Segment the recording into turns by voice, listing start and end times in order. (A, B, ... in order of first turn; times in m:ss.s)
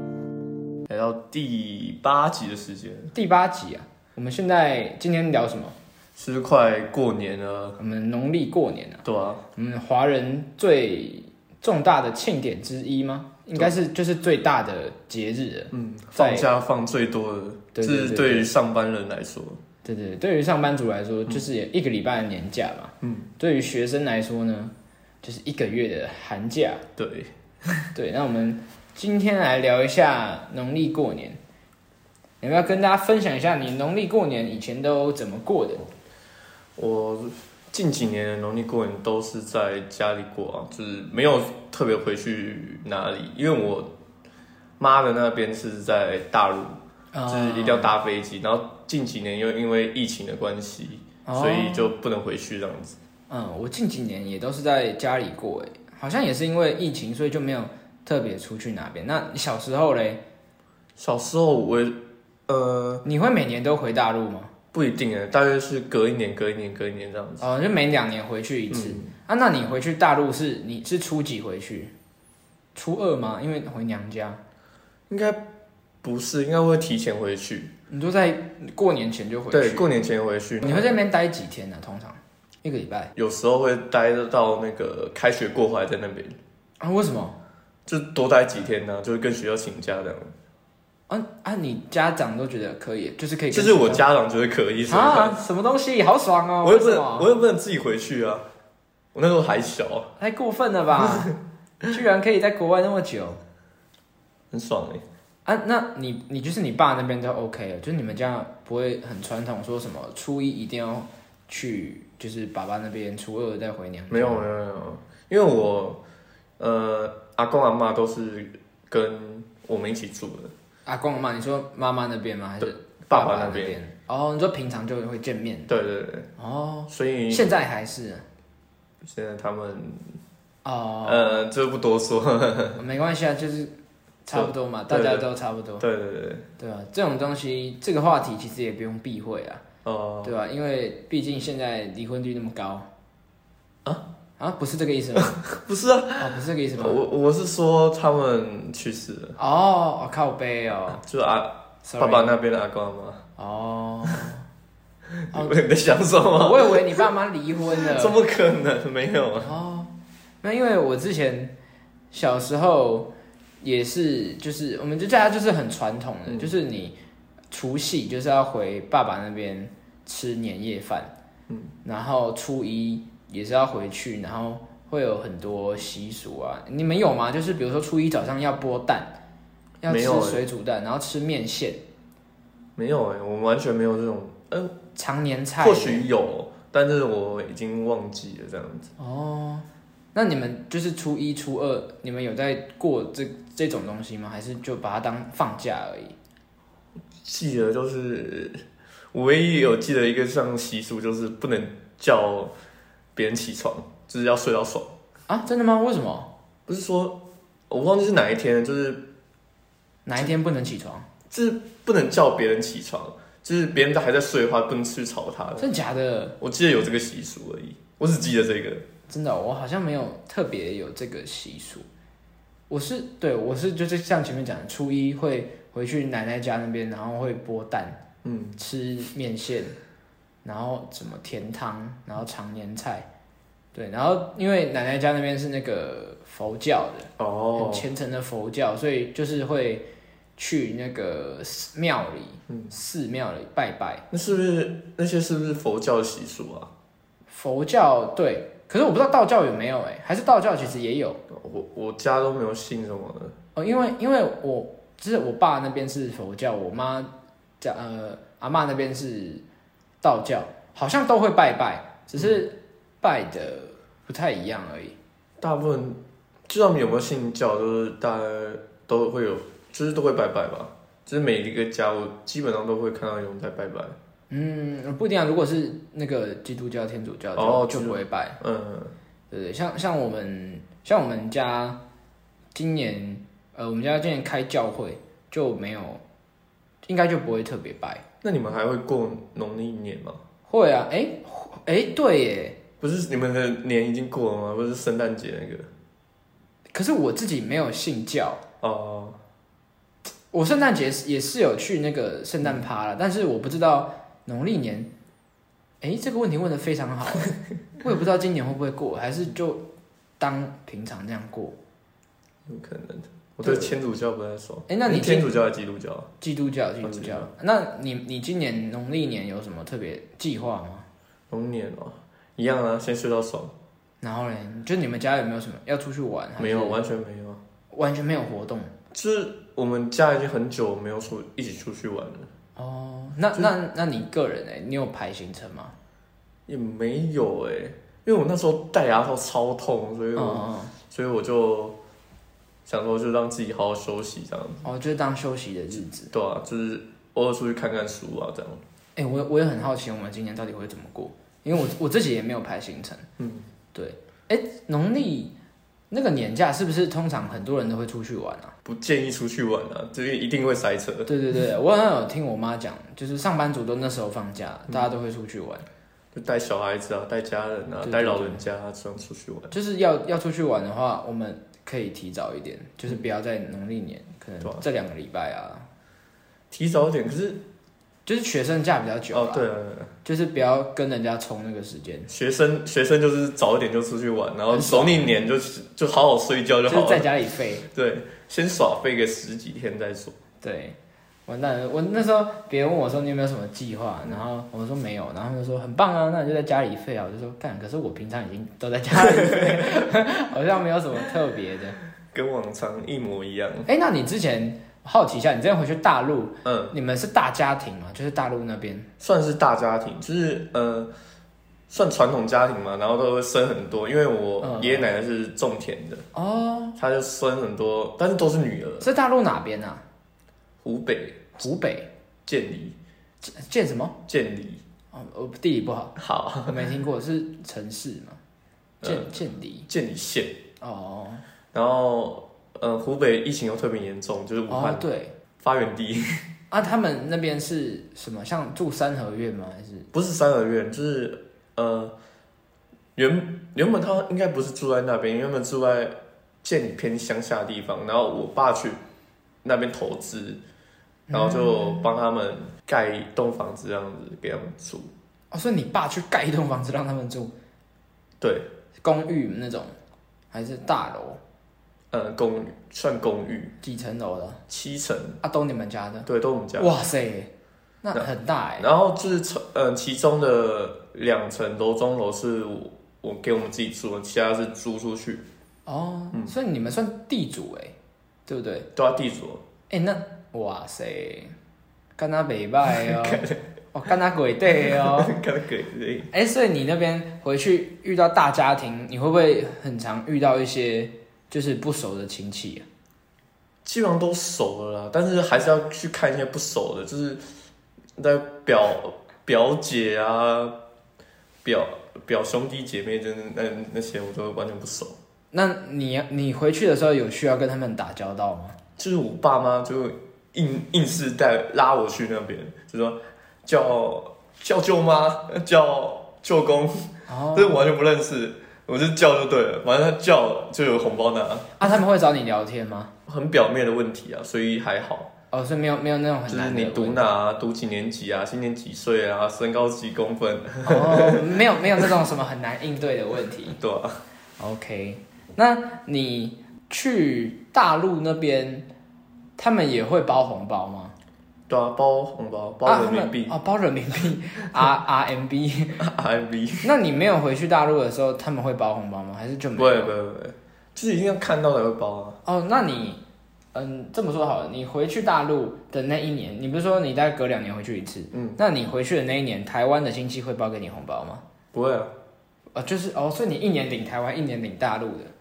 0:00.9-0:03.1 A
0:03.1-0:05.8 B
0:06.2-0:07.8 A
0:07.8-0:09.0 B
0:09.0-0:09.4 A
0:09.6-0:16.5 B
0:15.7-0:19.6 A
0:17.8-0:18.5 B
0:19.8-0:26.8 B
0:23.0-0:23.3 A
0:27.0-0:27.9 A
0:28.0-0:31.4 B
0:32.4-0:35.9 B
0:36.8-0:43.9 A
0:44.8-0:53.0 A
0:47.1-0:47.9 B
0:51.3-0:51.9 B
0:53.3-1:00.2 B
1:01.0-1:03.0 A
1:03.0-1:04.5 B
1:04.7-1:07.4 A
1:07.4-1:11.9 B
1:08.7-1:09.1 A
1:12.8-1:14.4 B
1:15.1-1:15.4 A
1:16.0-1:17.7 A
1:17.9-1:19.9 B
1:19.5-1:20.9 A
1:20.6-1:23.1 B
1:23.2-1:26.4 A
1:26.8-1:27.4 B
1:27.9-1:30.3 A
1:31.1-1:34.0 B
1:33.5-1:35.4 A
1:34.9-1:37.3 B
1:36.6-1:38.4 A
1:39.1-1:40.1 A
1:40.2-1:41.4 B
1:41.0-1:41.4 A
1:41.9-1:43.4 B
1:44.5-1:45.0 A
1:45.4-1:54.4 B
1:54.1-1:56.0 A
1:56.6-2:00.5 A
2:00.9-2:05.7 B
2:02.6-2:03.8 A
2:05.7-2:06.3 A
2:06.4-2:08.2 B
2:06.9-2:07.5 A
2:09.0-2:10.2 A
2:10.6-2:11.4 B
2:11.0-2:12.8 A
2:12.8-2:13.7 B
2:14.2-2:15.8 B
2:14.3-2:15.3 A
2:15.8-2:16.5 A
2:16.6-2:19.6 B
2:19.8-2:20.4 A
2:20.2-2:22.9 B
2:24.4-2:25.4 B
2:25.2-2:29.4 A
2:26.2-2:27.0 B
2:29.4-2:31.0 B
2:31.0-2:33.2 A
2:31.8-2:32.4 B
2:33.4-2:34.4 B
2:35.2-2:37.0 A
2:36.3-2:38.2 B
2:37.8-2:39.6 A
2:39.4-2:41.5 B
2:42.1-2:47.0 B
2:46.3-2:46.5 A
2:47.5-2:51.1 B
2:51.8-2:59.2 B
2:59.8-3:01.8 B
2:59.9-3:00.4 A
3:02.8-3:04.7 A
3:05.0-3:06.1 B
3:05.6-3:08.9 A
3:09.0-3:16.2 B
3:17.2-3:18.6 A
3:19.1-3:22.5 A
3:23.2-3:24.9 A
3:25.3-3:26.3 B
3:26.7-3:29.1 A
3:30.1-3:31.1 B
3:31.3-3:35.7 A
3:35.6-3:36.4 B
3:36.4-3:38.8 A
3:39.1-3:41.9 B
3:42.7-3:48.0 B
3:48.2-3:48.6 A
3:48.6-3:49.8 B
3:50.4-3:53.1 B
3:53.7-4:04.0 B
3:57.2-3:57.9 A
4:02.5-4:02.7 A
4:04.1-4:06.7 A
4:07.3-4:11.2 B
4:11.3-4:13.4 A
4:13.6-4:19.4 B
4:20.0-4:25.0 B
4:25.4-4:34.0 A
4:34.3-4:38.4 B
4:37.4-4:38.9 A
4:39.3-4:41.8 B
4:42.5-4:46.0 B
4:46.8-4:48.0 B
4:48.2-4:50.2 A
4:50.5-4:52.6 B
4:52.8-4:55.7 A
4:56.7-4:58.4 B
4:58.6-4:59.2 A
5:00.3-5:04.9 B
5:05.8-5:09.6 B
5:10.2-5:11.6 B
5:12.5-5:16.1 A
5:13.4-5:13.7 B
5:14.7-5:15.4 B
5:16.2-5:20.9 B
5:16.8-5:17.3 A
5:21.3-5:23.5 A
5:24.0-5:26.8 B
5:26.4-5:27.4 A
5:27.7-5:28.7 B
5:28.9-5:32.3 A
5:32.6-5:35.7 B
5:36.5-5:41.8 A
5:40.2-5:40.7 B
5:42.7-5:44.7 A
5:44.6-5:46.1 B
5:46.1-5:48.6 A
5:49.0-5:53.1 B
5:53.2-5:53.5 A
5:53.7-5:55.3 B
5:55.9-5:58.5 B
5:58.6-6:01.1 A
6:01.1-6:05.7 B
6:06.1-6:09.6 A
6:07.8-6:08.4 B
6:09.5-6:15.7 B
6:16.5-6:17.4 A
6:18.1-6:19.5 B
6:19.1-6:19.9 A
6:20.0-6:22.1 B
6:22.1-6:27.1 A
6:24.5-6:25.1 B
6:26.7-6:27.7 B
6:27.7-6:30.2 A
6:30.4-6:30.8 B
6:31.3-6:41.8 B
6:38.9-6:39.9 A
6:42.1-6:43.7 A
6:43.7-6:48.9 B
6:46.4-6:46.8 A
6:49.0-6:50.9 A
6:51.7-6:56.0 A
6:54.4-6:54.9 B
6:56.1-6:56.8 B
6:56.8-6:58.9 A
6:58.8-6:59.8 B
7:00.6-7:01.4 A
7:01.4-7:01.9 B
7:02.3-7:02.8 A
7:03.2-7:04.0 B
7:04.1-7:04.6 A
7:04.9-7:06.0 B
7:06.0-7:06.6 A
7:06.5-7:08.2 B
7:08.8-7:09.1 A
7:08.8-7:09.7 B
7:09.7-7:10.4 A
7:10.6-7:11.2 B
7:11.5-7:14.9 A
7:14.5-7:15.1 B
7:15.4-7:16.2 A
7:16.5-7:19.9 B
7:19.9-7:21.9 A
7:23.0-7:28.8 A
7:29.4-7:30.4 A
7:31.1-7:31.9 B
7:31.1-7:34.9 A
7:35.3-7:37.3 B
7:38.2-7:38.5 A
7:38.8-7:39.7 B
7:40.3-7:41.2 B
7:41.9-7:43.5 A
7:43.6-7:44.4 B
7:44.5-7:45.2 A
7:45.2-7:46.1 B
7:46.1-7:46.7 A
7:46.6-7:47.3 B
7:47.8-7:48.7 B
7:47.9-7:55.2 A
7:55.7-7:57.8 B
7:58.3-7:58.7 B
7:58.8-7:59.4 A
7:59.7-8:01.3 B
8:02.0-8:03.2 B
8:02.6-8:03.4 A
8:03.7-8:05.2 B
8:04.6-8:06.1 A
8:06.1-8:12.6 B
8:13.6-8:17.2 A
8:18.0-8:20.6 A
8:21.4-8:25.0 A
8:25.3-8:28.6 B
8:28.8-8:41.6 A
8:37.1-8:37.7 B
8:41.6-8:42.9 B
8:43.1-8:45.1 A
8:45.3-8:47.1 B
8:46.3-8:51.9 A
8:50.7-8:53.6 B
8:53.6-8:54.0 A
8:54.4-8:58.7 B
8:59.4-9:00.9 B
9:01.5-9:03.4 A
9:02.6-9:05.8 B
9:05.8-9:06.7 A
9:06.6-9:09.9 B
9:09.6-9:12.2 A
9:12.2-9:13.0 B
9:13.5-9:21.2 B
9:18.1-9:18.4 A
9:21.5-9:21.9 A
9:22.6-9:25.1 B